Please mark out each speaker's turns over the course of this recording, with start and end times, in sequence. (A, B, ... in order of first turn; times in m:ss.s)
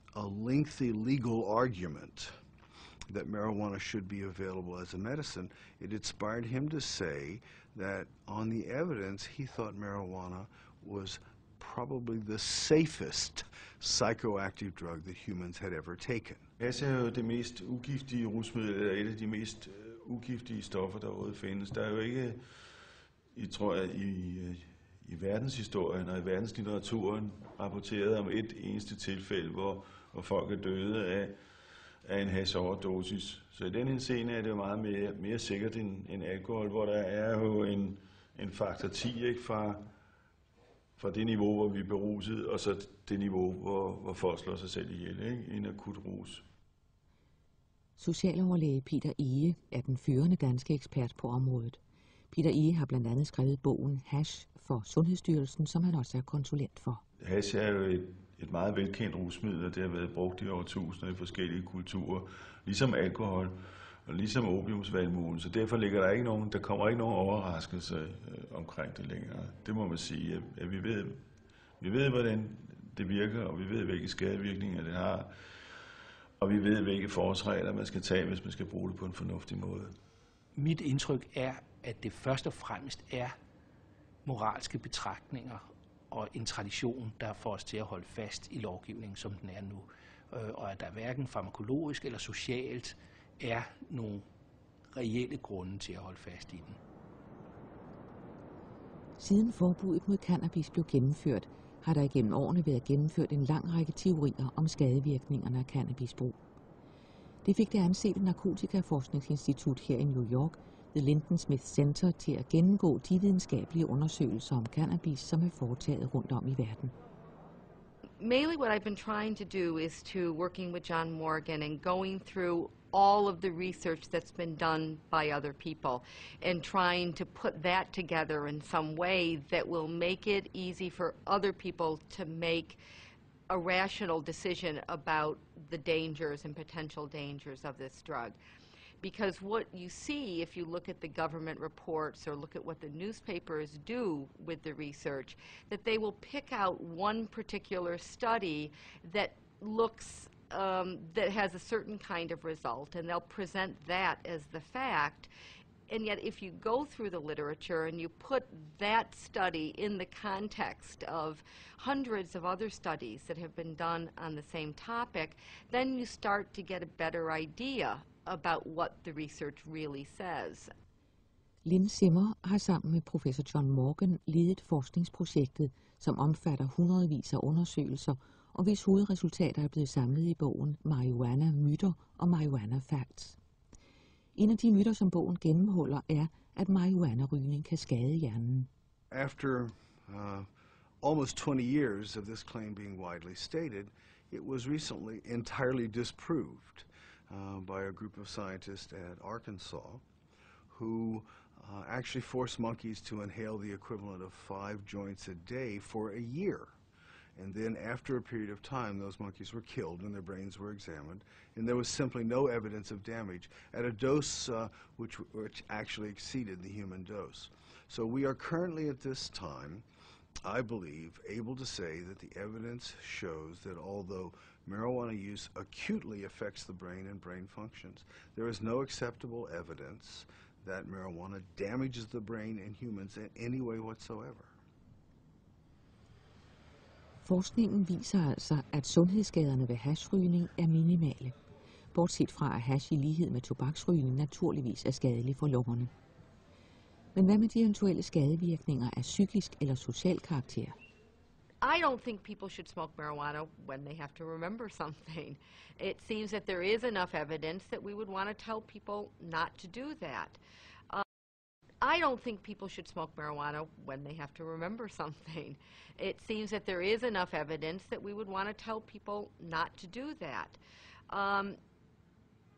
0:00.1-0:02.3 A
0:03.1-0:16.5 A
0:16.6-0:22.4 B
0:23.3-0:31.4 B
0:32.0-0:39.9 B
0:41.0-0:46.4 B
0:48.0-0:51.8 C
0:52.3-0:57.0 C
0:57.2-1:11.2 B
1:11.8-1:15.3 B
1:16.4-1:19.9 B
1:20.5-1:23.4 D
1:24.2-1:34.3 D
1:34.9-1:36.8 D
1:39.2-1:46.4 C
1:47.4-1:56.9 C
1:58.2-2:12.8 E
2:13.5-2:18.4 E
2:19.0-2:35.3 E
2:35.9-2:50.7 E
2:51.6-3:03.4 C
3:04.4-3:08.7 C
3:09.1-3:10.5 A
3:11.0-3:20.0 A
3:20.7-3:26.7 A
3:27.4-3:39.8 A
3:40.4-3:54.5 A
3:57.2-4:01.4 C
4:01.9-4:05.9 C
4:07.1-4:10.8 C
4:11.6-4:20.4 E
4:21.8-4:30.6 E
4:31.1-4:31.6 E